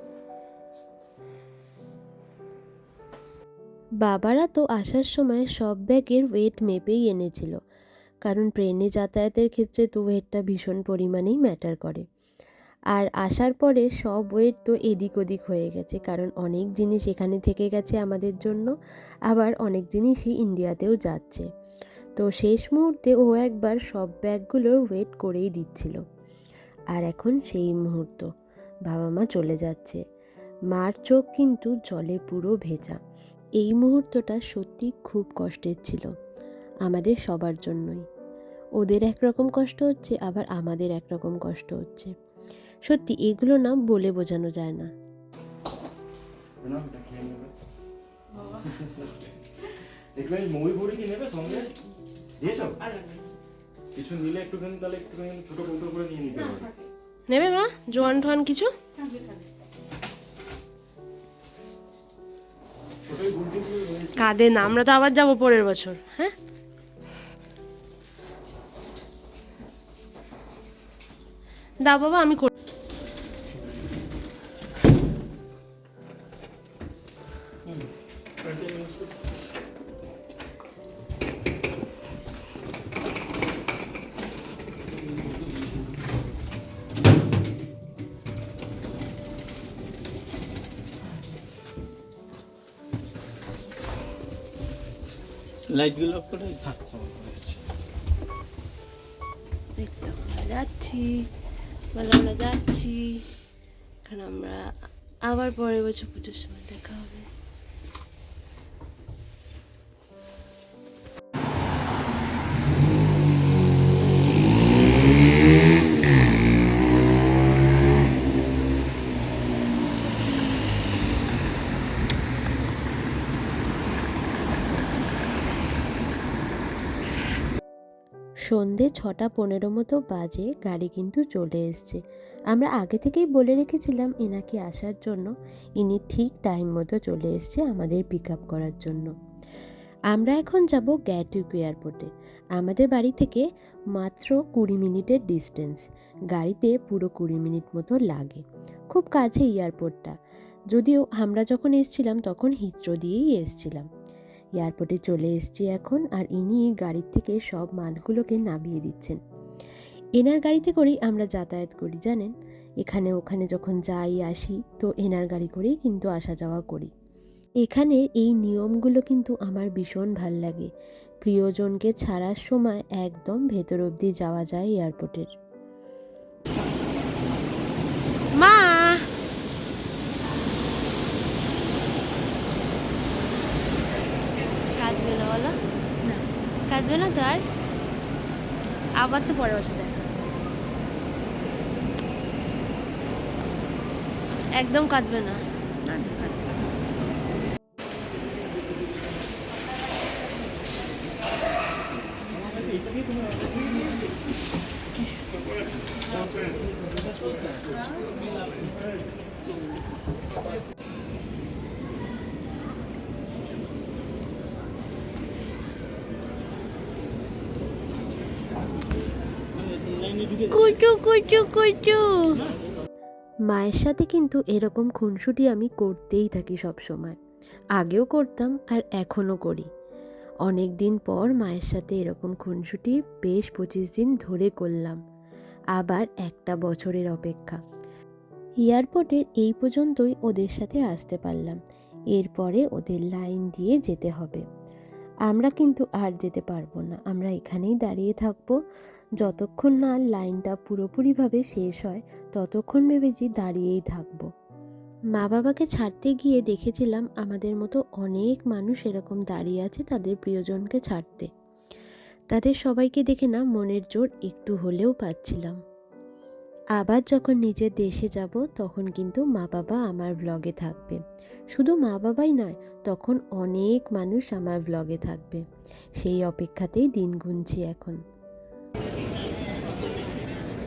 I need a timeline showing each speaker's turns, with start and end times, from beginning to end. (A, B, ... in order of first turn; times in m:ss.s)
0:04.0-0:07.6 A
0:08.2-0:12.0 A
0:12.9-0:18.7 A
0:19.3-0:21.5 A
0:22.2-0:26.0 A
0:26.9-0:28.3 A
0:28.9-0:30.0 A
0:30.7-0:33.0 A
0:33.6-0:36.1 A
0:36.8-0:38.0 A
0:38.8-0:42.1 A
0:42.8-0:44.9 A
0:46.6-0:47.5 B
0:48.6-0:49.3 B
0:50.1-0:51.7 B
0:52.4-0:52.8 B
0:53.9-0:56.7 B
0:57.3-0:58.7 C
1:03.1-1:04.3 B
1:04.2-1:06.3 C
1:11.8-1:12.5 C
1:35.7-1:36.6 D
1:36.6-1:37.6 B
1:39.8-1:41.2 C
1:41.9-1:43.1 C
1:44.0-1:44.6 C
1:45.2-1:47.2 C
2:08.5-2:19.1 A
2:20.1-2:30.2 A
2:30.7-2:33.9 A
2:34.6-2:39.2 A
2:40.2-2:46.9 A
2:47.6-2:50.7 A
2:51.2-2:55.3 A
2:58.4-2:59.0 C
3:04.7-3:05.5 C
3:06.7-3:07.4 C
3:09.0-3:10.1 C
3:14.6-3:15.4 C
3:22.6-3:23.4 B
3:39.5-3:40.8 D
3:40.5-3:42.3 C
3:43.5-3:47.2 A
3:47.8-3:49.7 A
3:50.4-3:55.0 A
3:55.8-3:57.6 A
3:58.6-4:01.6 A
4:02.1-4:04.4 A
4:05.3-4:08.6 A
4:09.2-4:14.2 A
4:15.2-4:21.3 A
4:22.3-4:25.6 A
4:26.8-4:31.0 A
4:31.5-4:35.4 A
4:36.0-4:38.0 A